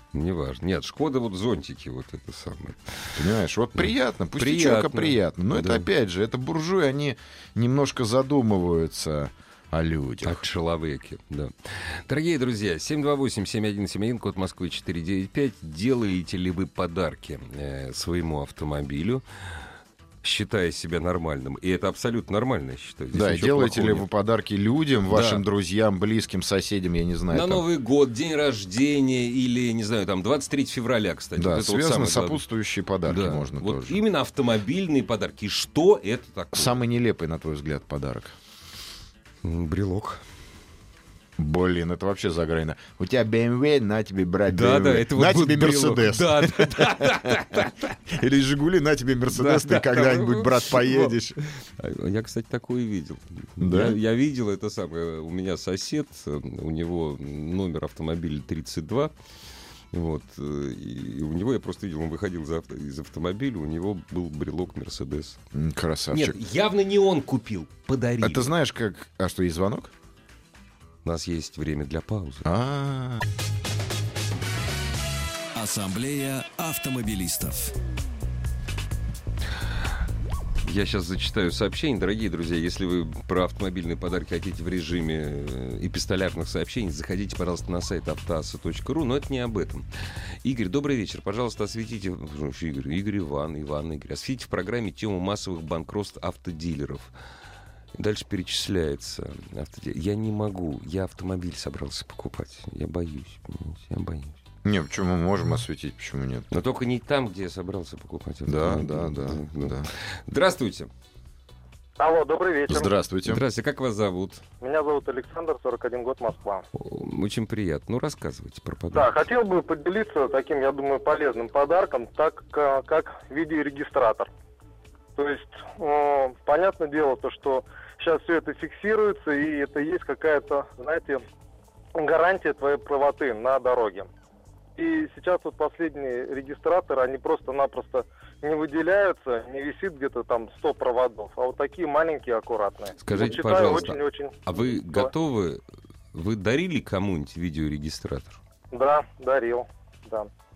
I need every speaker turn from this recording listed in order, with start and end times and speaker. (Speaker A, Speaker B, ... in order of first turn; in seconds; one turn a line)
Speaker A: 0.1-3.2
Speaker B: 3.1-10.4
Speaker A: 4.4-5.8
Speaker A: 10.2-19.2
Speaker A: 20.2-24.1
Speaker B: 23.1-27.6
Speaker A: 25.1-25.4
Speaker A: 27.3-32.4
Speaker B: 31.4-34.0
Speaker A: 33.1-36.8
Speaker B: 36.5-38.3
Speaker A: 39.4-40.2
Speaker B: 41.4-51.4
Speaker A: 44.5-48.0
Speaker A: 49.3-59.1
Speaker B: 53.6-54.0
Speaker A: 59.9-65.4
Speaker B: 65.5-66.4
Speaker A: 66.1-68.5
Speaker B: 68.2-69.9
Speaker A: 71.0-72.5
Speaker B: 72.4-73.2
Speaker C: 75.5-77.7
Speaker A: 80.6-89.8
Speaker A: 90.4-97.1
Speaker A: 98.0-104.4
Speaker B: 104.6-106.5
Speaker A: 106.5-110.9
Speaker B: 108.5-109.9
Speaker D: 112.0-112.9
Speaker B: 112.7-113.4
Speaker A: 113.2-114.4
Speaker D: 114.6-116.6
Speaker A: 116.7-119.1
Speaker D: 118.9-124.3
Speaker D: 125.2-131.2
Speaker D: 131.9-134.1
Speaker D: 134.8-145.1
Speaker A: 143.0-145.6
Speaker A: 146.1-148.4
Speaker D: 148.7-150.3